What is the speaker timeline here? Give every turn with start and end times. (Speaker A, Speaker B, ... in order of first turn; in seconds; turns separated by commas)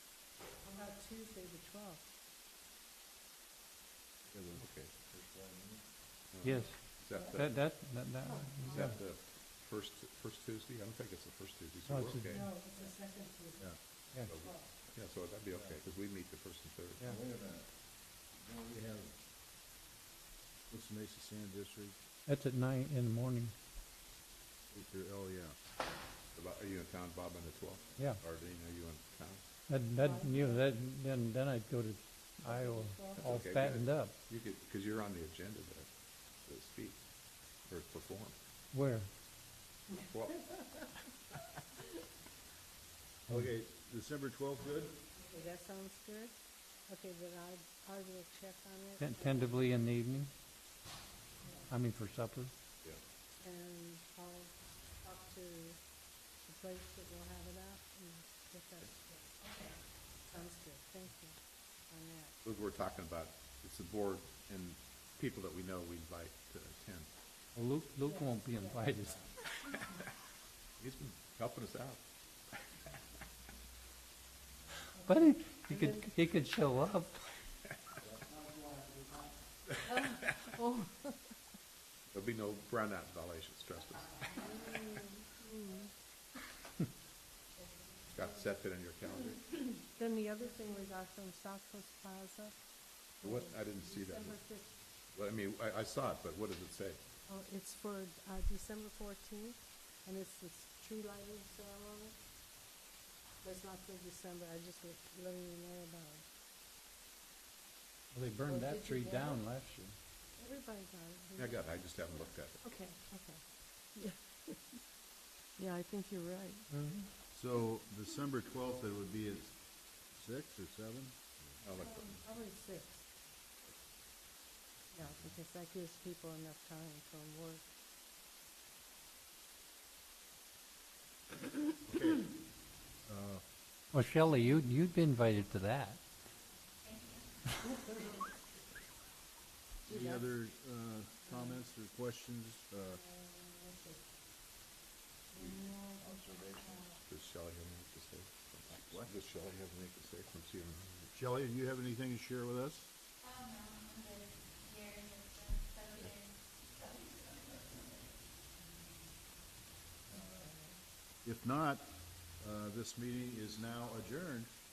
Speaker A: 0.6-2.1, Speaker B: 4.3-5.8, Speaker C: 4.5-4.9, Speaker C: 6.3-7.6, Speaker D: 6.4-8.9, Speaker A: 8.2-8.5, Speaker C: 8.6-12.5, Speaker D: 11.9-12.5, Speaker A: 12.5-13.6, Speaker C: 14.2-17.1, Speaker B: 17.0-17.7, Speaker B: 18.3-19.1, Speaker B: 20.7-22.0, Speaker D: 22.2-23.5, Speaker B: 24.7-25.6, Speaker C: 26.3-29.4, Speaker D: 29.7-34.1, Speaker A: 30.0-30.6, Speaker A: 32.5-33.3, Speaker C: 33.1-35.9, Speaker C: 36.4-37.0, Speaker C: 37.6-38.3, Speaker D: 38.7-39.1, Speaker C: 40.1-40.8, Speaker B: 43.3-45.0, Speaker A: 45.2-46.4, Speaker A: 46.9-49.5, Speaker D: 49.0-50.3, Speaker D: 51.7-52.5, Speaker A: 53.4-55.8, Speaker A: 56.4-59.0, Speaker A: 60.3-62.3, Speaker C: 62.4-67.1, Speaker D: 67.5-69.2, Speaker C: 70.8-72.0, Speaker D: 75.0-77.3, Speaker A: 75.7-76.0, Speaker A: 80.0-81.1, Speaker C: 82.1-84.3, Speaker A: 84.4-85.9, Speaker C: 88.1-89.6, Speaker A: 89.8-92.6, Speaker A: 93.2-94.7, Speaker C: 93.2-94.4, Speaker C: 95.1-97.0, Speaker A: 97.3-102.2, Speaker A: 103.4-106.2, Speaker D: 108.1-110.0, Speaker A: 110.4-111.5, Speaker C: 111.3-112.6, Speaker A: 112.6-113.4, Speaker A: 113.9-114.5, Speaker A: 115.6-116.7, Speaker D: 116.7-117.1, Speaker B: 117.3-121.2, Speaker C: 121.6-122.2, Speaker A: 121.8-123.1, Speaker A: 124.9-127.7, Speaker B: 131.9-132.3, Speaker B: 133.0-133.4, Speaker D: 133.9-136.0, Speaker B: 139.8-143.0, Speaker A: 143.1-144.0, Speaker B: 145.4-146.8, Speaker A: 145.5-146.0, Speaker C: 146.9-151.1, Speaker B: 151.1-152.9, Speaker A: 160.1-160.7, Speaker B: 160.2-160.4, Speaker B: 161.2-164.5